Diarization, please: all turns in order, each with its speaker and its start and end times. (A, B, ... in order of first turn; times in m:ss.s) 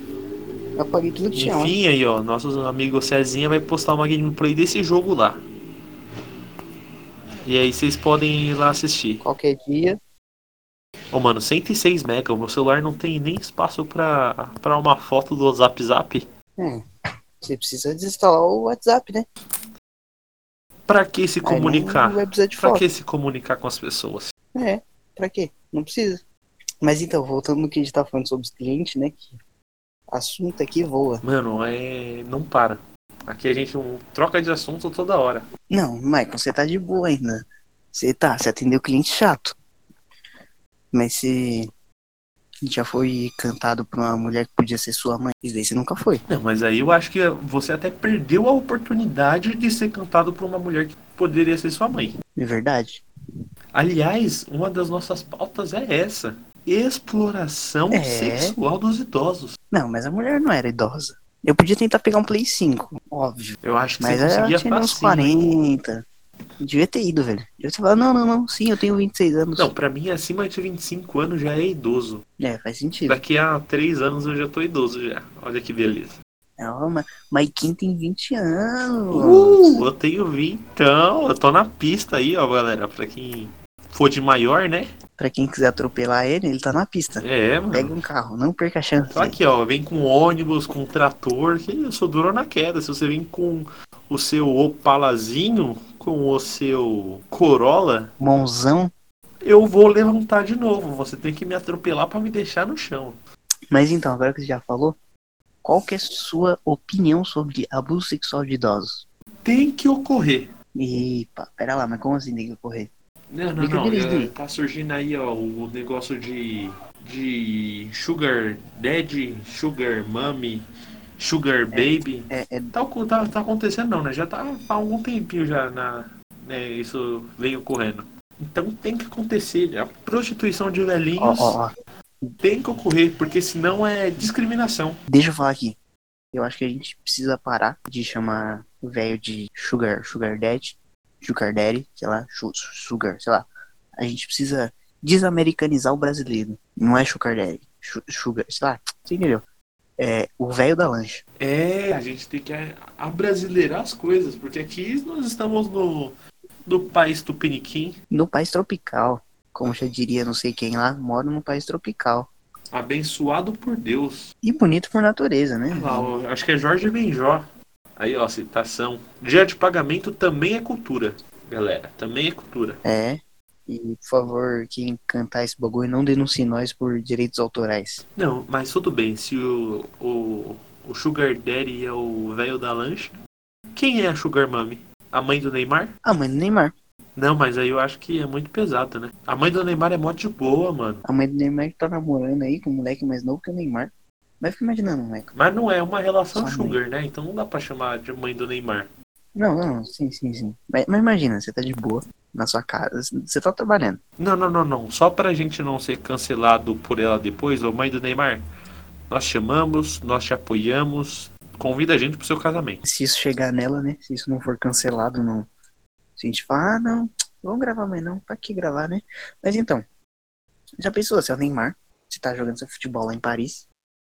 0:00.8-0:01.8 A
0:01.3-0:05.4 B
0:07.4-0:09.2 B
0:09.2-0:10.0 A
0:11.1-0:16.3 B
0:17.4-0:19.3 A
0:20.9-0:24.3 B
0:21.4-0:22.8 A
0:24.6-0:26.2 A
0:26.8-0:29.4 A
0:30.1-0:31.2 A
0:31.2-0:35.5 B
0:35.7-0:39.6 A
0:40.9-0:41.7 A
0:42.6-0:46.2 A
0:46.3-0:52.1 B
0:52.4-0:53.0 A
0:53.8-0:59.6 B
0:57.9-0:58.6 A
0:59.7-1:06.0 A
1:03.6-1:05.4 B
1:06.6-1:09.7 A
1:09.6-1:12.2 B
1:12.4-1:13.2 A
1:13.1-1:16.2 B
1:16.6-1:19.8 A
1:19.1-1:24.9 B
1:25.2-1:29.4 A
1:27.2-1:28.0 B
1:29.1-1:38.1 B
1:38.2-1:38.9 A
1:39.4-1:43.2 B
1:43.7-1:45.0 A
1:45.6-1:49.0 A
1:49.4-1:50.5 B
1:50.8-1:52.9 A
1:53.3-2:00.6 B
1:53.6-1:54.3 A
2:01.2-2:11.6 B
2:01.7-2:02.7 A
2:11.2-2:11.7 A
2:12.4-2:15.0 B
2:15.1-2:15.8 A
2:16.3-2:23.5 A
2:24.0-2:29.4 A
2:30.0-2:31.2 A
2:31.4-2:36.2 B
2:36.7-2:38.0 B
2:38.1-2:42.3 A
2:42.7-2:44.3 B
2:44.4-2:46.1 A
2:45.7-2:47.5 B
2:48.0-2:52.8 B
2:52.8-2:58.0 A
2:58.2-3:03.1 B
3:03.8-3:05.9 B
3:06.0-3:06.7 A
3:07.2-3:11.0 B
3:11.0-3:15.3 A
3:15.3-3:18.9 B
3:16.3-3:16.8 A
3:19.4-3:24.0 A
3:24.2-3:28.4 B
3:29.1-3:32.8 B
3:32.8-3:35.5 A
3:36.2-3:39.8 A
3:40.8-3:43.7 A